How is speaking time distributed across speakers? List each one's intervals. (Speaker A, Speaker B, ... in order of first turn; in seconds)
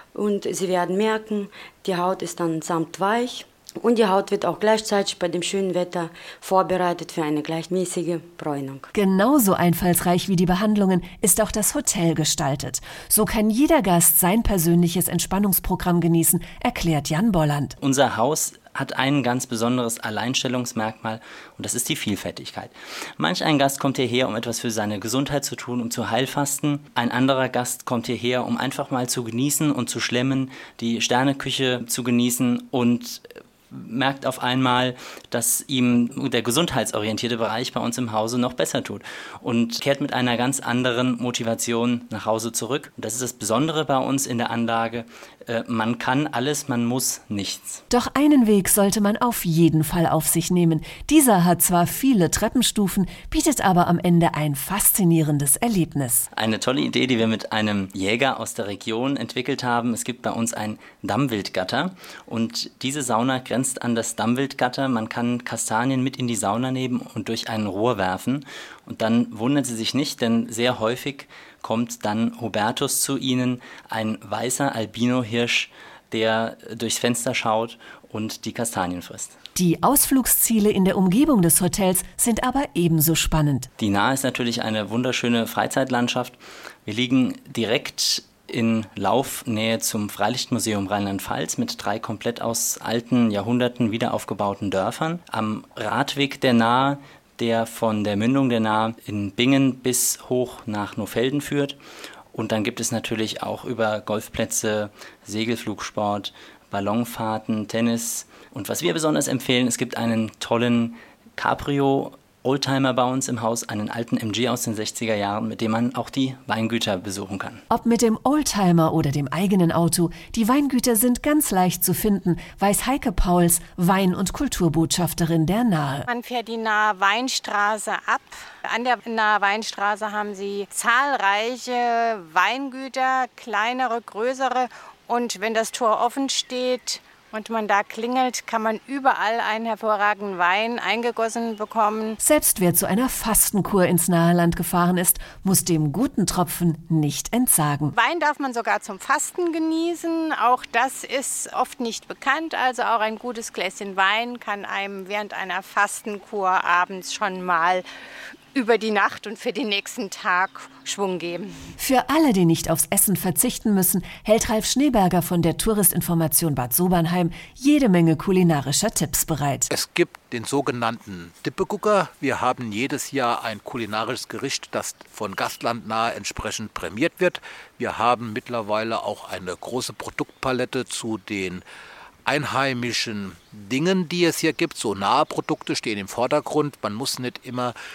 Speaker A: 0.1-8.9
Speaker B: 8.9-17.7, 47.9-56.3, 79.5-83.7, 117.7-126.0, 142.2-147.9, 161.8-169.7
Speaker C: 17.8-47.8, 56.3-79.3, 83.8-101.8, 102.3-117.6
Speaker D: 126.1-142.2, 147.9-157.8, 158.5-161.5
Speaker E: 169.7-181.6, 182.2-187.7